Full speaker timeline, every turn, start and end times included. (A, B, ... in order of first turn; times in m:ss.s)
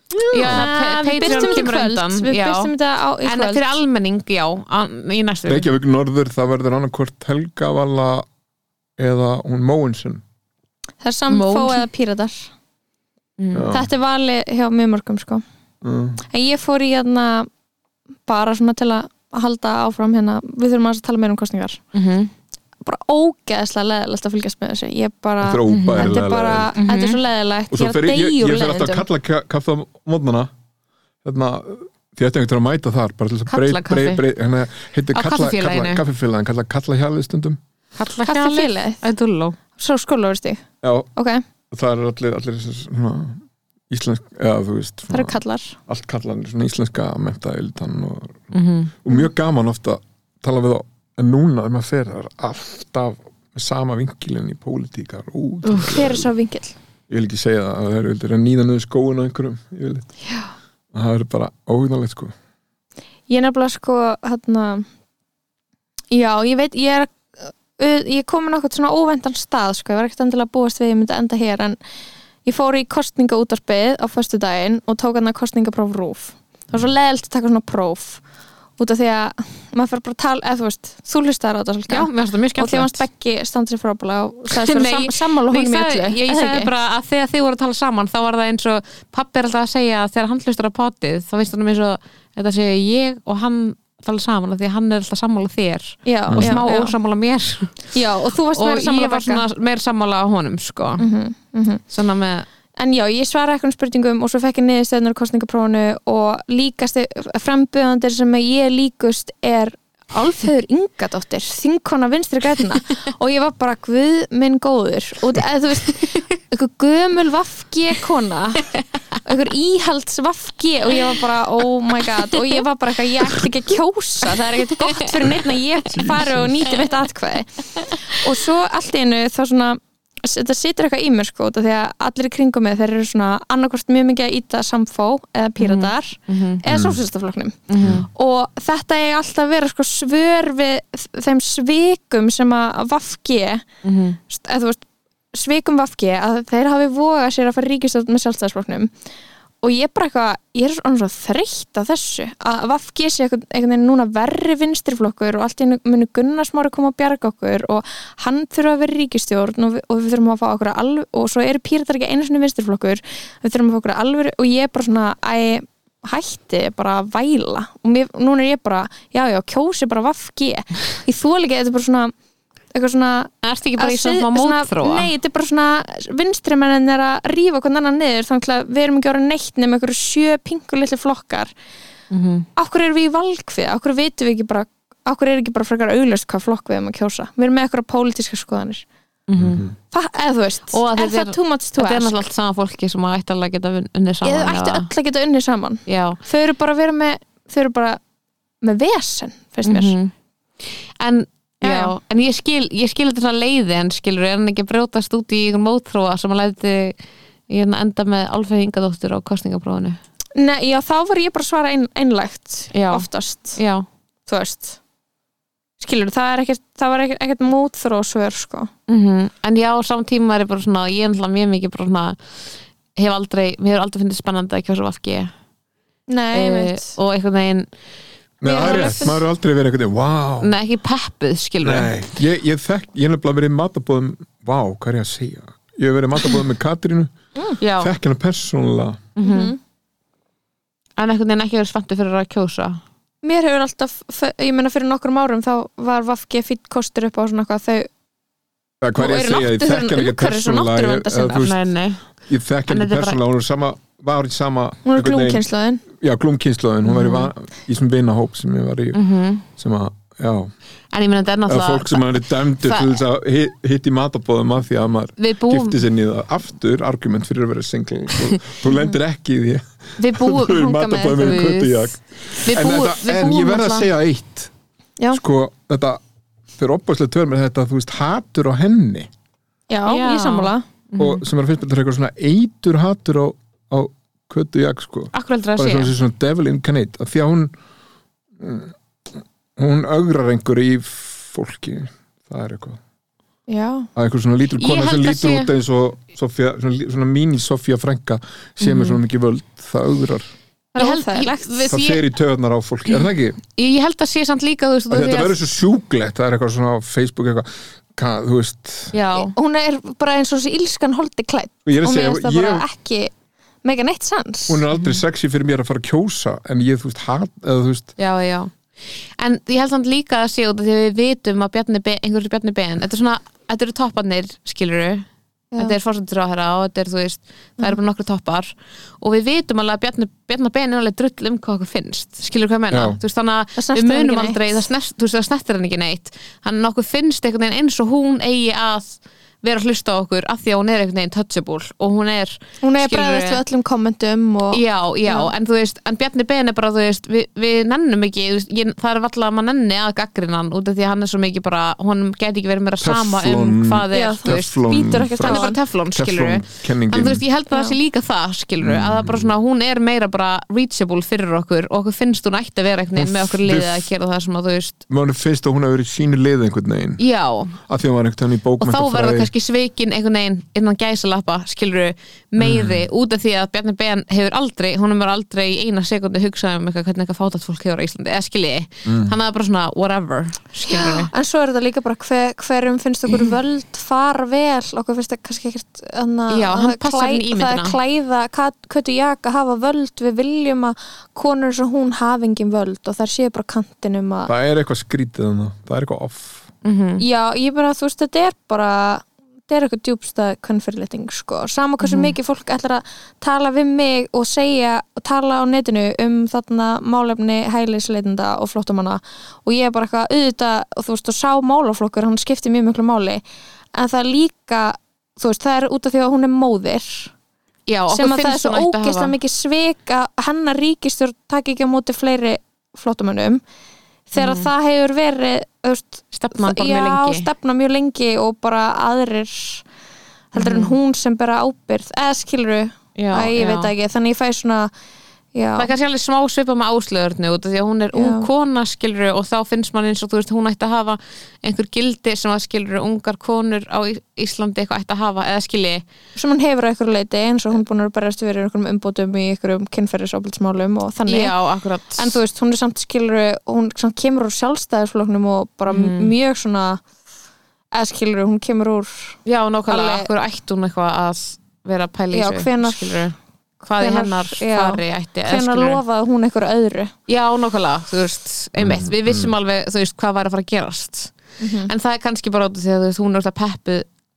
0:00.1-0:00.7 A
0:00.3-0:02.7 B
0:00.4-0:03.8 C
0:01.2-0:01.5 A
0:03.2-0:05.7 B
0:05.5-0:08.3 A
0:09.0-0:10.2 A
0:11.0-0:12.5 C
0:11.3-0:11.9 B
0:13.4-0:13.7 B
0:13.5-0:13.9 A
0:13.7-0:15.4 C
0:15.8-0:16.2 A
0:16.3-0:17.5 C
0:18.3-0:21.8 C
0:21.9-0:22.3 B
0:22.8-0:29.0 C
0:25.4-0:26.8 A
0:25.7-0:26.2 B
0:26.8-0:27.2 B
0:27.7-0:30.5 A
0:31.2-0:37.6 A
0:33.5-0:34.2 B
0:35.1-0:36.0 B
0:38.0-0:39.6 B
0:38.2-0:39.0 C
0:39.8-0:40.6 C
0:40.8-0:41.1 A
0:41.2-0:41.4 C
0:41.7-0:48.4 A
0:45.1-0:45.8 C
0:48.5-0:48.9 B
0:49.0-0:56.3 A
0:55.6-0:56.0 B
0:55.9-0:56.8 C
0:57.1-1:00.1 A
1:00.9-1:02.3 A
1:03.3-1:04.9 C
1:06.1-1:11.8 C
1:12.4-1:18.2 C
1:18.8-1:26.7 C
1:21.9-1:23.0 B
1:24.5-1:37.8 B
1:36.1-1:36.9 C
1:36.3-1:36.6 A
1:37.9-1:39.4 C
1:38.6-1:41.0 B
1:41.0-1:41.8 C
1:41.9-1:42.5 B
1:42.8-1:58.7 C
1:59.2-2:23.7 C
2:05.9-2:06.6 A
2:15.6-2:16.6 B
2:16.7-2:17.0 A
2:17.7-2:18.1 B
2:17.8-2:18.1 A
2:23.8-2:24.2 B
2:24.3-2:28.9 C
2:29.6-2:52.1 C
2:52.7-3:01.5 C
2:53.4-2:55.1 B
3:02.1-3:02.5 B
3:02.6-3:08.8 C
3:09.3-3:09.7 B
3:09.4-3:09.7 A
3:09.9-3:12.2 C
3:10.7-3:14.9 B
3:14.2-3:18.0 C
3:15.9-3:16.2 B
3:18.6-3:20.0 C
3:19.6-3:20.1 B
3:21.0-3:27.0 B
3:21.6-3:21.9 C
3:27.5-3:30.0 B
3:30.4-3:33.6 C
3:32.7-3:33.9 B
3:34.3-3:34.8 C
3:35.8-3:38.7 C
3:38.9-3:42.2 B
3:43.0-3:45.3 B
3:46.1-3:46.9 C
3:46.3-3:47.7 B
3:48.4-3:50.5 A
3:48.4-3:49.2 C
3:48.6-3:49.1 B
3:50.4-3:52.1 B
3:51.6-3:57.1 A
3:57.6-3:57.9 B
3:57.8-3:59.1 A
3:59.2-3:59.5 B
3:59.2-3:59.6 C
4:01.0-4:02.8 B
4:03.2-4:07.9 C
4:08.8-4:11.6 A
4:09.0-4:11.5 C
4:11.4-4:12.0 B
4:12.3-4:19.0 A
4:12.7-4:13.2 B
4:14.8-4:15.8 C
4:16.8-4:17.3 B
4:18.9-4:19.4 B
4:19.6-4:20.5 A
4:20.9-4:23.0 B
4:21.5-4:34.5 A
4:25.2-4:25.8 B
4:30.0-4:31.9 B
4:30.5-4:31.5 C
4:32.4-4:33.9 B
4:35.1-4:36.0 A
4:36.6-4:39.1 A
4:39.7-4:40.6 C
4:39.9-4:41.2 B
4:41.0-4:47.5 A
4:45.1-4:45.9 B
4:48.4-4:52.8 A
4:53.5-4:53.9 C
4:54.0-5:00.3 A
4:54.6-4:55.5 B
4:58.6-4:59.0 B
5:00.7-5:02.0 B
5:00.8-5:01.7 C
5:01.7-5:03.4 A
5:02.9-5:05.4 B
5:04.9-5:09.0 A
5:08.9-5:09.3 B
5:09.1-5:13.1 C
5:11.6-5:12.7 A
5:13.6-5:14.6 C
5:14.5-5:17.9 A
5:14.8-5:15.0 B
5:18.0-5:18.5 B
5:19.2-5:25.1 B
5:25.6-5:43.4 B
5:32.7-5:33.0 A
5:33.6-5:34.7 C
5:42.6-5:45.3 C
5:44.5-5:54.6 B
5:52.8-5:57.2 A
5:53.9-5:55.6 C
5:55.2-6:04.8 B
5:58.6-5:59.3 A
6:03.0-6:03.9 A
6:04.9-6:07.0 A
6:07.0-6:07.6 B
6:07.7-6:09.3 A
6:08.6-6:21.1 B
6:12.4-6:12.9 A
6:18.9-6:19.2 A
6:20.7-6:34.3 C
6:26.3-6:27.8 B
6:34.3-6:36.5 A
6:36.6-6:37.0 B
6:37.0-6:53.2 C
6:41.8-6:42.1 B
6:53.7-6:57.1 C
6:57.7-6:59.1 B
6:57.9-7:03.4 C
7:04.1-7:09.6 C
7:04.2-7:04.5 B
7:06.1-7:07.3 B
7:10.3-7:14.7 C
7:10.4-7:10.8 B
7:13.0-7:13.7 B
7:15.3-7:15.7 C
7:15.6-7:25.8 B
7:17.9-7:18.3 C
7:26.2-7:31.3 C
7:31.1-7:32.2 B
7:32.0-7:36.8 C
7:35.7-7:36.1 B
7:37.7-7:40.1 C
7:39.3-7:45.8 B
7:42.1-7:43.1 C
7:43.8-7:46.9 C
7:47.1-7:51.1 B
7:48.6-7:49.3 A
7:51.4-7:51.7 C
7:51.7-7:53.9 B